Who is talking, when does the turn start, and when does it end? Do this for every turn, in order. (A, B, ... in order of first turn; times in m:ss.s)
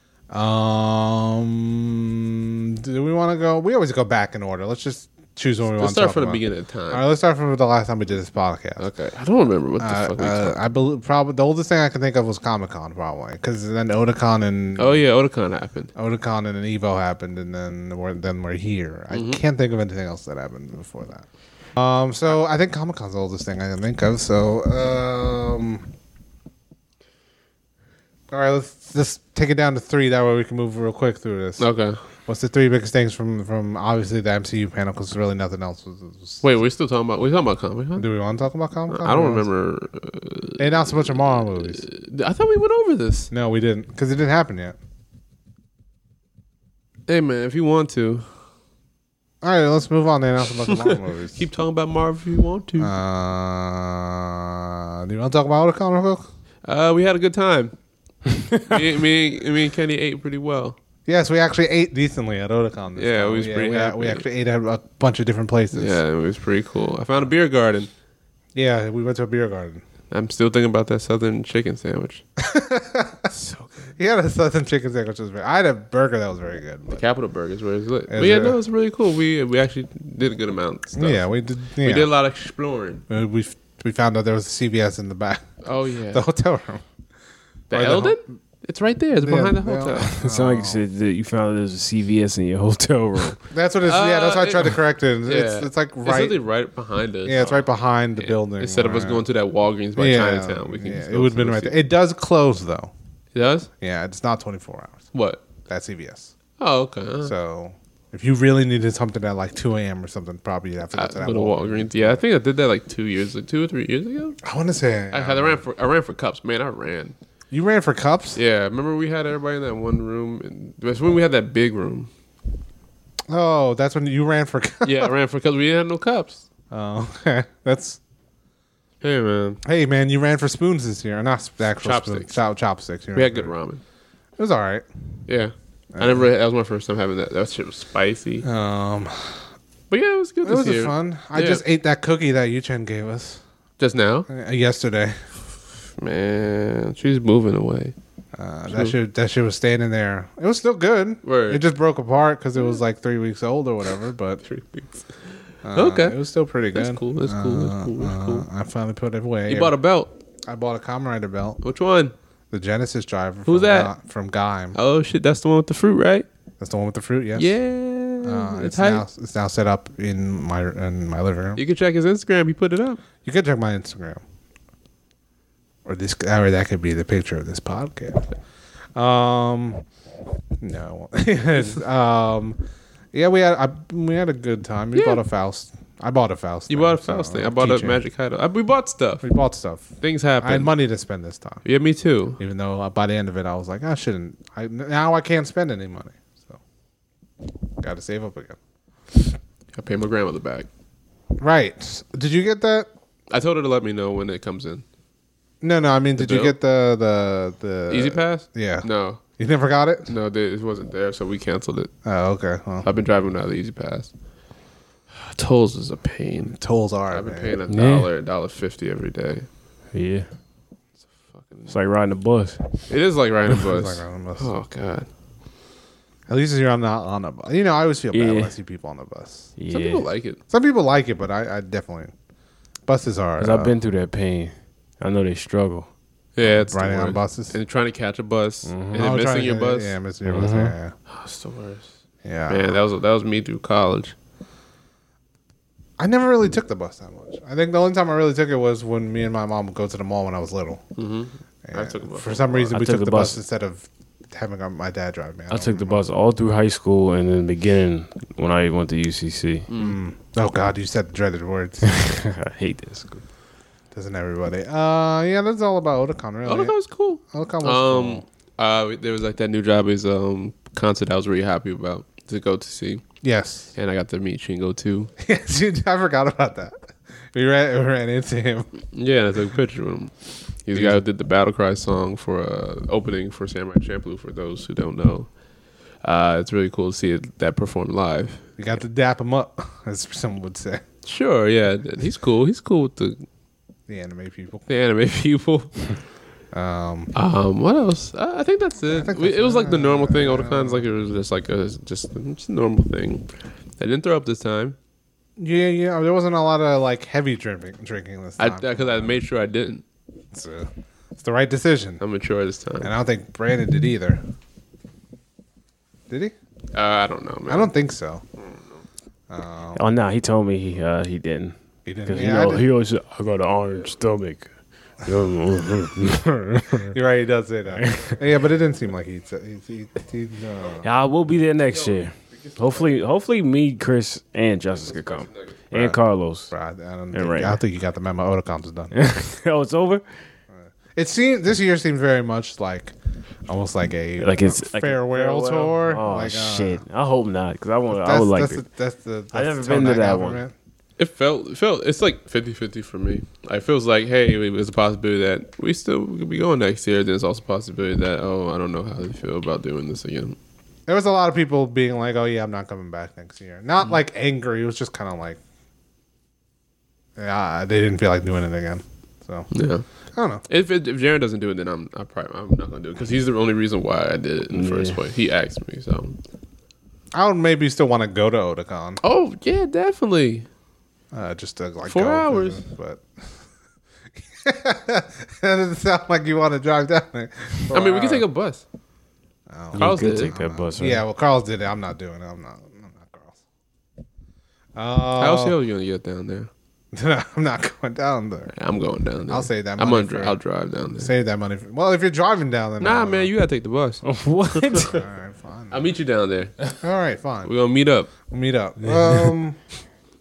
0:00.3-0:08.9 A
0:05.7-0:07.0 B
0:08.8-0:10.6 B
0:09.8-0:15.0 A
0:14.8-0:15.9 B
0:15.9-0:25.9 A
0:19.1-0:19.4 B
0:28.3-0:31.7 A
0:31.6-0:32.0 B
0:32.3-0:36.4 A
0:36.4-0:38.1 B
0:38.0-0:39.4 A
0:38.9-0:43.3 B
0:40.6-0:41.8 A
0:43.3-0:44.8 A
0:47.1-0:48.3 B
0:49.4-0:51.4 A
0:50.7-0:52.9 B
0:52.8-0:56.3 A
0:56.6-0:57.7 B
0:58.6-1:00.8 B
1:01.0-1:06.0 A
1:03.0-1:04.2 B
1:05.7-1:07.9 B
1:08.5-1:09.8 A
1:10.1-1:12.2 B
1:12.4-1:13.3 A
1:13.3-1:13.9 B
1:14.0-1:17.0 A
1:16.9-1:21.2 B
1:18.1-1:18.6 A
1:21.0-1:22.1 A
1:21.8-1:23.0 B
1:23.1-1:25.4 A
1:25.6-1:26.2 B
1:26.1-1:26.8 A
1:27.7-1:30.1 B
1:27.7-1:28.2 A
1:29.2-1:30.8 A
1:30.1-1:33.4 C
1:33.5-1:36.4 A
1:33.8-1:41.8 B
1:37.2-1:39.2 A
1:40.0-1:42.9 A
1:43.3-1:43.7 B
1:43.8-1:45.0 A
1:45.1-1:45.5 B
1:45.6-1:46.3 A
1:46.6-1:47.3 B
1:47.2-1:52.2 A
1:50.9-1:54.4 B
1:54.4-1:55.6 A
1:55.1-1:57.2 B
1:57.5-1:58.4 A
1:58.4-2:02.1 B
2:03.3-2:05.1 A
2:04.8-2:06.4 B
2:06.7-2:08.0 A
2:09.0-2:09.6 B
2:09.6-2:13.5 A
2:11.8-2:12.4 B
2:13.1-2:13.8 B
2:14.4-2:14.9 A
2:15.3-2:18.4 B
2:15.9-2:16.3 A
2:18.4-2:19.5 A
2:19.9-2:21.6 B
2:20.4-2:23.4 A
2:23.8-2:24.3 B
2:24.3-2:25.2 A
2:26.0-2:27.9 B
2:28.4-2:34.4 A
2:31.2-2:31.6 B
2:34.4-2:35.0 B
2:35.6-2:39.7 A
2:35.7-2:36.2 B
2:36.7-2:38.4 B
2:39.5-2:40.1 B
2:40.4-2:41.6 A
2:41.6-2:42.1 B
2:42.5-2:44.8 A
2:43.4-2:43.9 B
2:44.7-2:46.3 B
2:46.6-2:47.5 A
2:47.4-2:49.0 B
2:48.2-2:51.6 A
2:51.6-2:53.0 B
2:53.2-2:54.2 A
2:55.8-2:58.3 A
2:58.9-2:59.8 A
3:00.6-3:02.6 A
3:03.1-3:08.0 A
3:04.9-3:05.2 B
3:06.7-3:09.3 B
3:09.2-3:11.6 A
3:10.0-3:10.7 B
3:11.6-3:12.4 B
3:12.4-3:16.6 A
3:17.8-3:18.6 A
3:19.7-3:20.7 B
3:21.4-3:22.9 A
3:23.3-3:24.8 B
3:25.6-3:28.9 A
3:26.2-3:26.5 B
3:27.9-3:29.2 B
3:29.4-3:30.1 A
3:30.1-3:31.9 B
3:32.0-3:32.9 A
3:32.8-3:34.1 B
3:35.2-3:36.6 B
3:36.5-3:37.6 A
3:37.1-3:39.5 B
3:37.7-3:38.1 C
3:39.9-3:40.3 C
3:41.3-3:41.7 B
3:41.7-3:42.6 C
3:42.9-3:45.1 B
3:43.5-3:44.5 A
3:46.3-3:49.5 A
3:48.1-3:48.5 C
3:49.6-3:50.0 C
3:49.7-3:50.4 B
3:50.5-3:52.1 A
3:52.8-3:53.7 A
3:53.4-3:55.9 C
3:56.4-4:00.0 B
3:56.4-3:57.6 A
3:58.6-3:59.1 C
3:59.0-4:00.9 A
4:00.3-4:00.7 C
4:01.1-4:01.9 B
4:02.2-4:02.7 A
4:02.5-4:04.1 B
4:06.0-4:10.8 A
4:11.0-4:12.7 B
4:11.6-4:16.0 A
4:12.7-4:13.4 C
4:15.5-4:19.7 C
4:19.7-4:20.0 B
4:19.7-4:21.9 A
4:21.8-4:23.2 C
4:23.9-4:26.7 A
4:26.4-4:33.0 B
4:27.3-4:28.2 A
4:33.2-4:33.7 A
4:33.7-4:35.1 B
4:35.2-4:38.7 A
4:38.9-4:45.3 B
4:40.7-4:41.0 A
4:46.0-4:48.4 B
4:48.6-4:50.8 A
4:51.0-4:53.2 B
4:53.9-4:54.6 A
4:54.7-4:56.0 B
4:56.5-4:57.1 A
4:57.1-5:03.3 B
4:58.9-5:00.8 A
5:03.8-5:04.8 B
5:05.4-5:09.2 A
5:08.4-5:09.8 B
5:10.3-5:12.0 A
5:12.0-5:12.9 B
5:12.8-5:14.2 A
5:16.1-5:16.3 A
5:16.7-5:17.7 B
5:17.5-5:18.2 A
5:19.3-5:19.8 A
5:19.8-5:24.5 C
5:21.8-5:22.7 A
5:25.0-5:26.9 C
5:26.9-5:30.9 A
5:27.8-5:28.1 C
5:30.8-5:36.5 C
5:31.8-5:32.8 B
5:34.9-5:35.5 B
5:35.7-5:36.0 A
5:36.5-5:38.9 A
5:37.1-5:37.6 C
5:38.9-5:40.0 C
5:40.5-5:42.9 A
5:43.5-5:46.8 A
5:44.2-5:48.6 C
5:47.9-5:50.5 A
5:49.3-5:50.4 C
5:51.0-6:00.4 B
6:00.9-6:05.4 A
6:07.2-6:09.5 A
6:09.5-6:09.8 B
6:10.1-6:10.4 A
6:10.5-6:16.2 B
6:14.5-6:15.0 C
6:17.1-6:19.0 A
6:19.0-6:20.5 B
6:21.1-6:23.0 A
6:21.8-6:22.6 B
6:24.3-6:28.2 A
6:27.7-6:28.6 B
6:29.5-6:33.4 A
6:29.7-6:31.0 C
6:29.8-6:30.3 B
6:34.8-6:35.6 A
6:35.2-6:36.5 B
6:36.9-6:38.5 A
6:38.5-6:41.1 B
6:39.3-6:40.4 A
6:41.0-6:43.3 A
6:42.8-6:44.0 B
6:44.0-6:45.0 C
6:44.6-6:44.8 B
6:44.8-6:45.8 A
6:45.7-6:46.7 B
6:46.8-6:47.5 A
6:47.4-6:48.1 B
6:48.2-6:49.6 A